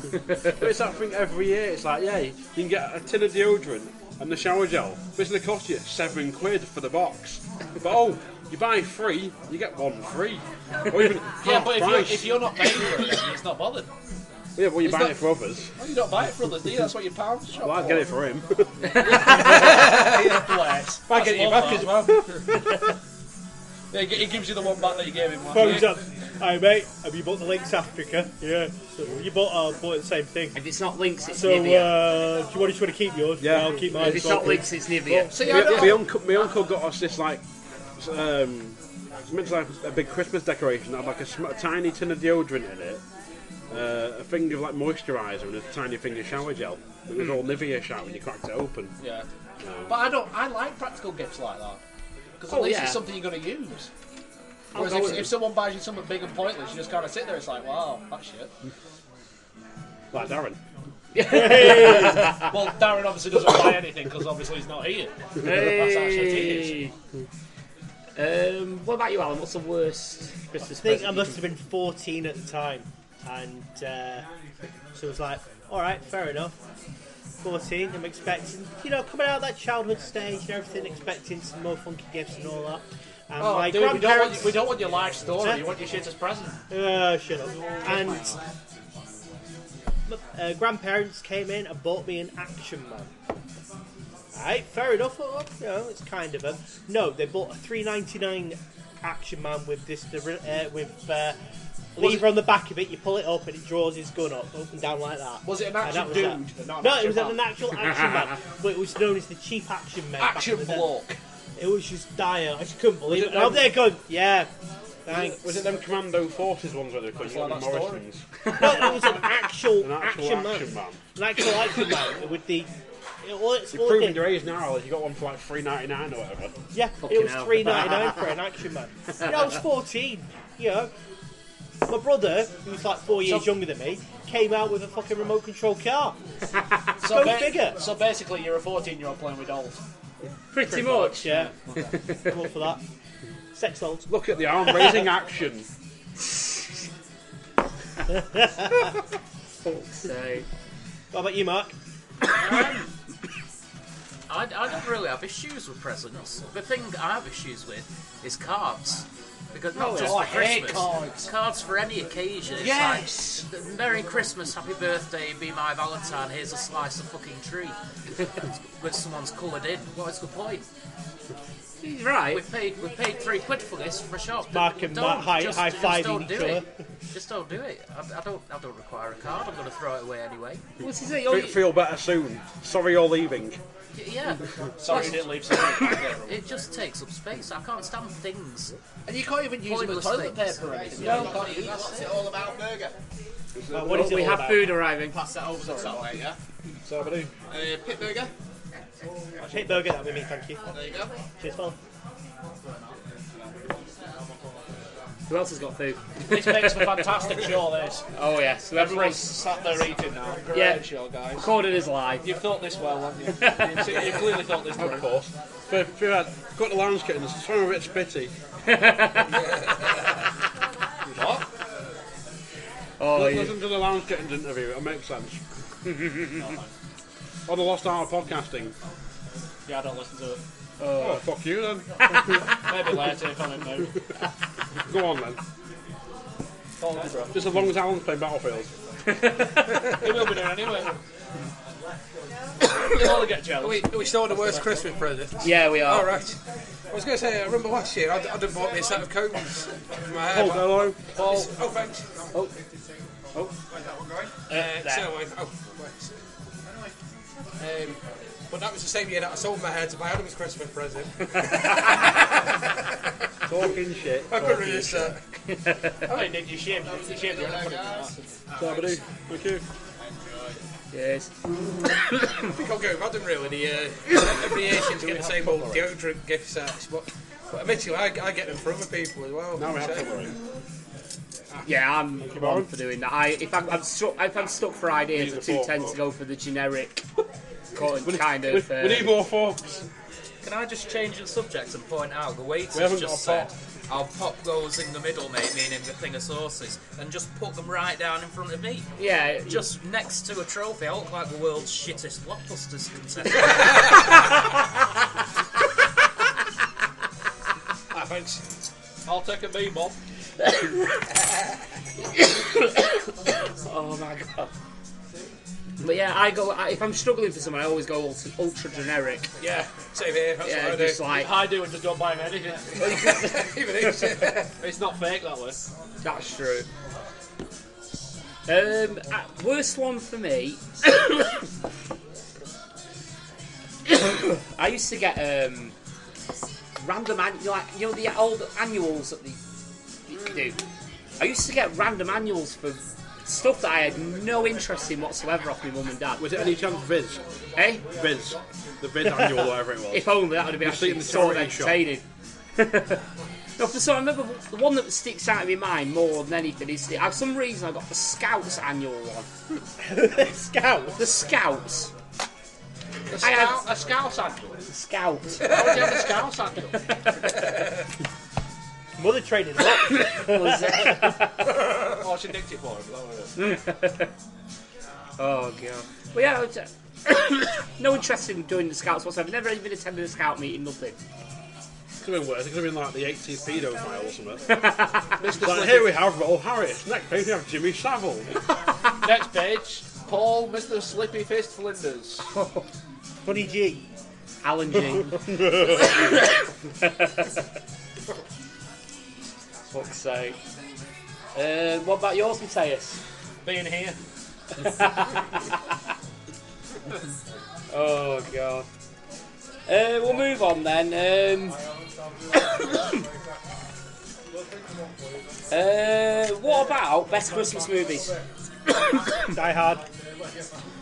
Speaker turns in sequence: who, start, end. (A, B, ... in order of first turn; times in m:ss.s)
0:00.6-0:12.4 A
0:11.4-0:13.9 B
0:14.6-0:15.7 A
0:14.8-0:15.2 B
0:15.8-0:18.1 B
0:17.6-0:19.6 A
0:19.1-0:22.2 B
0:19.9-0:20.4 C
0:21.1-0:22.2 C
0:23.9-0:25.9 B
0:25.5-0:30.6 D
0:30.5-0:32.0 E
0:31.3-0:34.7 D
0:33.4-0:34.6 A
0:34.0-0:35.9 E
0:35.2-0:36.1 B
0:35.3-0:37.4 A
0:38.0-0:38.8 A
0:39.3-0:43.0 A
0:43.7-0:48.9 A
0:47.2-0:47.4 E
0:49.0-0:49.2 B
0:49.6-0:50.0 A
0:49.9-0:51.8 B
0:52.4-0:53.9 B
0:52.5-0:53.0 E
0:54.7-0:55.3 E
0:54.7-0:58.5 B
1:00.1-1:00.6 A
1:01.1-1:02.5 E
1:01.5-1:06.8 B
1:05.4-1:06.9 E
1:08.2-1:11.3 E
1:10.8-1:14.2 D
1:14.9-1:16.5 D
1:17.4-1:24.7 D
1:23.4-1:26.6 B
1:26.7-1:28.4 D
1:27.8-1:28.4 B
1:30.1-1:33.1 D
1:34.3-1:41.4 D
1:42.0-1:50.9 D
1:42.0-1:42.4 B
1:45.4-1:47.4 B
1:50.2-1:51.2 B
1:51.6-1:54.5 D
1:53.1-1:53.7 B
1:55.1-1:55.6 D
1:55.1-1:58.2 A
1:57.2-1:58.0 B
1:58.6-2:02.7 D
1:59.8-2:01.0 A
2:03.2-2:04.3 D
2:03.7-2:06.5 A
2:06.7-2:10.9 D
2:07.0-2:08.2 E
2:11.9-2:16.2 D
2:13.2-2:13.6 B
2:17.0-2:19.8 B
2:17.0-2:17.8 D
2:20.5-2:21.3 E
2:20.6-2:21.5 D
2:22.1-2:22.8 D
2:23.5-2:24.1 D
2:24.1-2:25.7 A
2:29.6-2:30.4 E
2:31.1-2:31.7 D
2:34.3-2:47.8 F
2:39.8-2:40.2 E
2:39.8-2:41.3 B
2:42.6-2:43.4 B
2:48.4-2:50.7 F
2:51.8-2:52.4 E
2:52.3-3:00.6 F
2:54.5-2:56.6 D
3:00.8-3:01.7 E
3:01.2-3:03.6 A
3:03.9-3:08.7 F
3:04.8-3:06.4 B
3:09.0-3:11.9 B
3:09.6-3:12.1 F
3:11.0-3:11.3 E
3:13.6-3:14.4 A
3:13.7-3:14.7 D
3:13.9-3:15.2 E
3:15.6-3:16.0 B
3:16.8-3:17.3 A
3:19.5-3:20.6 D
3:21.4-3:21.8 D
3:25.3-3:27.1 E
3:26.3-3:28.0 B
3:28.1-3:29.4 E
3:28.7-3:31.5 B
3:30.5-3:32.2 E
3:32.2-3:35.1 B
3:34.8-3:38.3 A
3:38.7-3:39.3 E
3:41.1-3:41.4 B
3:43.0-3:43.6 E
3:43.1-3:45.4 A
3:45.9-3:46.3 E
3:46.4-3:46.6 B
3:47.5-3:48.7 A
3:49.7-3:50.4 B
3:50.8-3:51.2 E
3:51.0-3:51.8 A
3:52.6-3:53.9 B
3:54.9-3:55.4 A
3:56.8-3:57.4 B
3:57.3-3:58.7 A
3:59.1-3:59.7 E
4:00.0-4:00.9 B
4:02.9-4:04.7 B
4:03.6-4:06.4 C
4:05.4-4:06.1 E
4:06.9-4:12.0 C
4:10.3-4:11.0 A
4:11.1-4:11.5 B
4:14.5-4:15.1 E
4:14.5-4:16.1 C
4:17.6-4:18.0 C
4:18.5-4:22.2 C
4:23.5-4:25.1 A
4:24.3-4:25.2 C
4:25.5-4:26.0 E
4:26.1-4:28.2 B
4:28.6-4:29.6 A
4:30.9-4:31.3 E
4:32.4-4:40.1 C
4:35.0-4:35.8 B
4:39.6-4:40.3 A
4:41.6-4:47.0 E
4:42.2-4:42.7 A
4:45.1-4:46.0 A
4:47.7-4:49.1 E
4:47.8-4:49.8 A
4:50.4-4:58.9 F
4:52.7-4:53.5 A
4:59.0-4:59.6 E
4:59.4-5:04.0 F
5:07.9-5:08.4 C
5:09.0-5:10.0 B
5:12.1-5:13.0 E
5:13.6-5:14.5 E
5:15.8-5:19.3 E
5:19.4-5:21.1 C
5:20.4-5:21.3 E
5:21.1-5:22.9 B
5:22.8-5:24.0 E
5:22.8-5:24.5 C
5:24.6-5:25.6 B
5:26.0-5:26.6 E
5:28.5-5:31.2 E
5:33.9-5:35.7 E
5:36.8-5:39.4 E
5:40.1-5:40.6 E
5:41.2-5:46.3 E
5:46.2-5:47.2 A
5:47.6-5:47.8 E
5:47.9-5:51.8 A
5:49.9-5:52.0 E
5:52.6-5:53.0 E
5:53.6-5:59.3 E
5:59.8-6:01.1 D
6:01.0-6:01.9 E
6:03.1-6:04.6 B
6:03.2-6:03.6 E
6:04.7-6:05.5 E
6:05.4-6:06.8 B
6:09.0-6:11.1 D
6:10.1-6:11.4 E
6:12.0-6:13.3 B
6:13.4-6:14.1 E
6:15.2-6:20.9 E
6:22.0-6:24.4 A
6:24.5-6:25.0 E
6:25.2-6:26.0 B
6:25.4-6:28.3 A
6:29.0-6:32.3 B
6:32.4-6:32.6 E
6:33.2-6:33.9 D
6:34.4-6:36.3 E
6:39.7-6:40.4 E
6:41.3-6:43.0 E
6:43.4-6:44.0 B
6:44.6-6:45.4 E
6:47.7-6:48.6 E
6:49.7-6:51.6 E
6:55.5-6:58.1 E
6:59.3-6:59.8 D